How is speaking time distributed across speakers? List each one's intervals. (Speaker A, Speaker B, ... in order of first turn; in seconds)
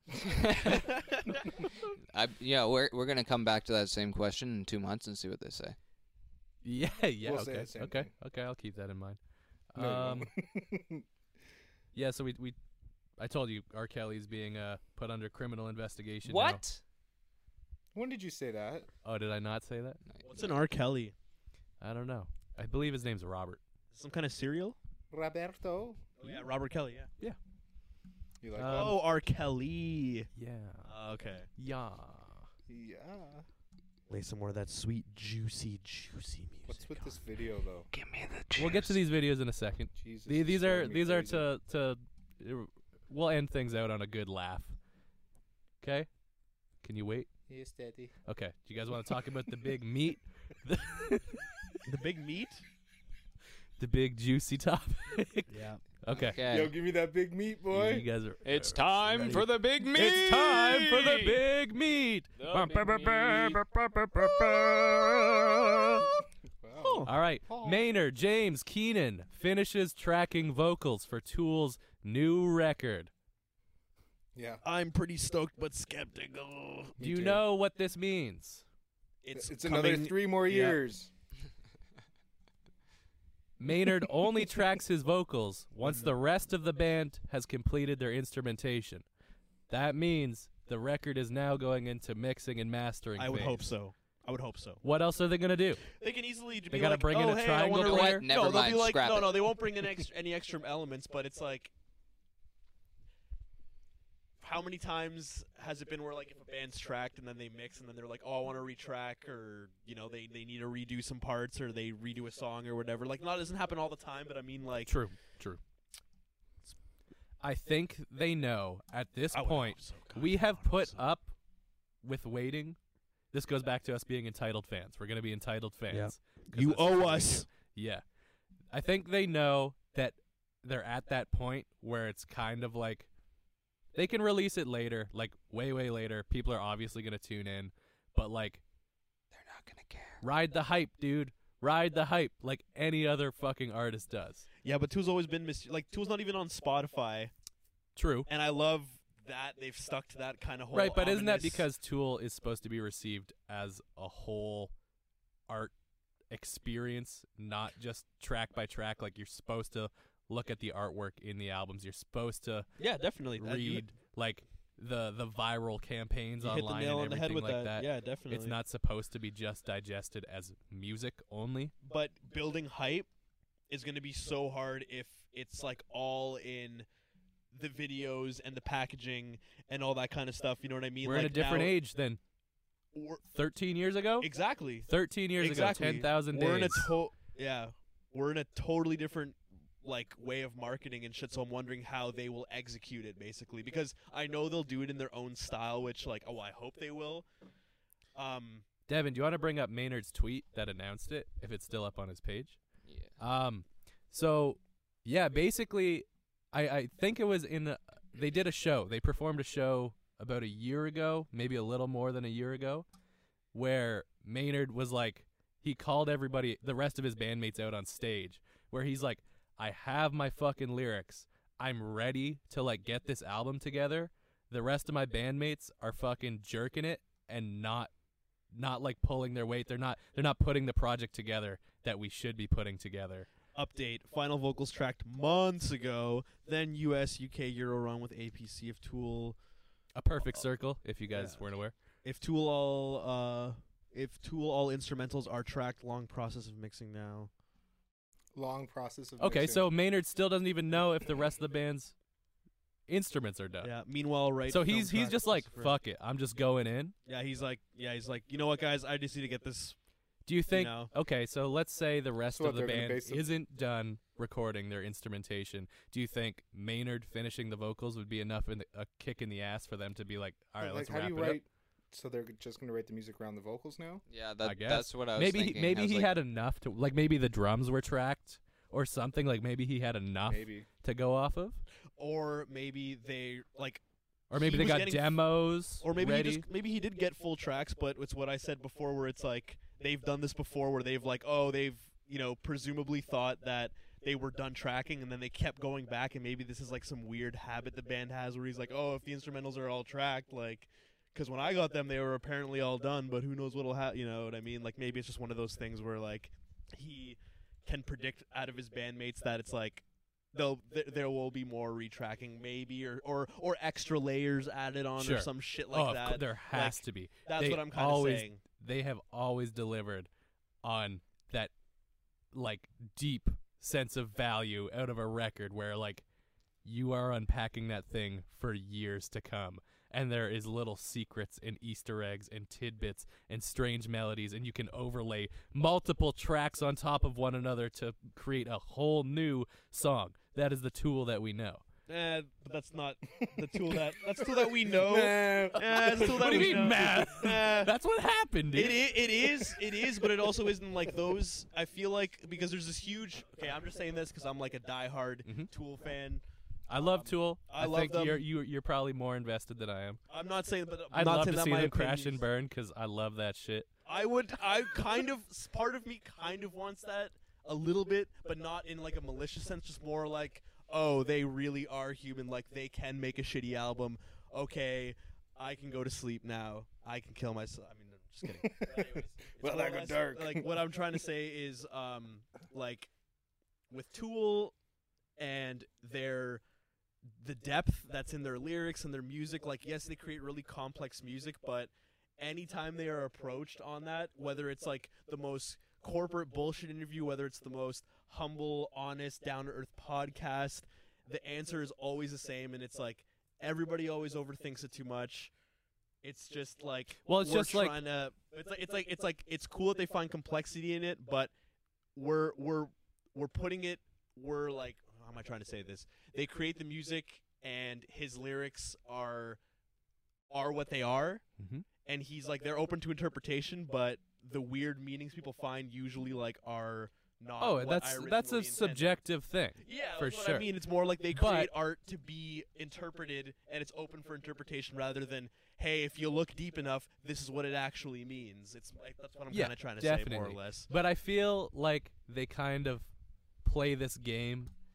Speaker A: 0.2-5.8, 16.2-16.8, 20.1-20.6, 37.9-39.0, 56.3-56.7, 58.4-61.4, 62.4-63.6, 97.7-99.5, 139.3-140.2, 202.8-203.1, 274.1-276.1
Speaker B: 6.6-9.2, 9.7-10.3, 11.9-12.6, 13.2-16.6, 19.0-20.0, 21.8-23.6, 28.5-29.0, 30.4-30.9, 31.6-32.5, 38.5-44.8, 45.8-46.1, 46.8-47.3, 48.2-51.8, 53.8-56.4, 57.7-66.1, 67.0-73.1, 77.0-78.6, 83.6-89.0, 89.7-93.6, 94.8-95.9, 96.7-98.3, 114.8-115.6, 117.4-121.3, 122.0-122.8, 123.3-128.0, 128.7-133.1, 133.9-138.6, 140.2-144.5, 147.9-148.3, 150.7-154.7, 155.5-155.7, 156.3-162.7, 163.3-171.7, 181.0-182.2, 183.3-184.3, 184.8-186.9, 198.9-202.6, 203.2-212.9, 213.5-227.9, 228.5-233.3, 239.9-241.8, 249.2-251.9, 252.9-253.7, 254.5-256.9, 260.2-271.4, 274.4-281.6, 284.3-286.4, 315.0-320.1, 320.6-321.5, 322.3-326.0, 326.6-341.6, 345.8-348.9, 355.2-355.5, 356.7-360.0, 360.9-363.7, 407.1-407.8, 421.4-421.6, 427.4-430.5, 431.1-431.5, 439.3-442.9, 443.4-444.5
Speaker C: 7.2-8.1, 9.8-11.1, 17.9-18.9, 25.1-26.4, 28.4-29.0, 32.7-33.5, 36.6-37.9, 39.9-41.5, 47.5-48.1, 56.1-58.0, 66.6-67.8, 74.3-74.6, 77.0-77.4, 79.3-81.1, 248.3-249.7, 262.3-263.3, 270.6-274.0, 280.2-280.7, 343.2-347.4, 349.3-349.6, 378.2-380.6
Speaker D: 20.2-21.1, 23.9-24.8, 26.2-27.1, 28.6-30.3, 30.9-31.5, 34.1-37.2, 51.8-52.6, 55.5-55.8, 66.8-67.1, 74.6-77.0, 79.2-80.8, 85.8-86.1, 93.2-94.8, 95.9-101.7, 104.4-115.0, 119.3-121.0, 125.9-127.5, 144.6-147.3, 148.3-151.7, 162.8-163.9, 166.4-168.6, 171.8-173.1, 173.7-176.9, 177.5-181.7, 182.9-183.2, 184.2-197.2, 198.1-198.7, 233.5-239.4, 241.1-241.4, 242.0-247.3, 253.6-255.7, 257.1-259.8, 260.5-260.9, 282.0-285.2, 285.8-318.4, 341.9-347.7, 348.5-358.2, 360.1-362.2, 363.9-382.9, 383.7-384.5, 385.2-386.4, 387.2-405.3, 406.0-411.3, 411.9-419.4, 420.3-421.2, 421.8-428.9, 429.6-440.7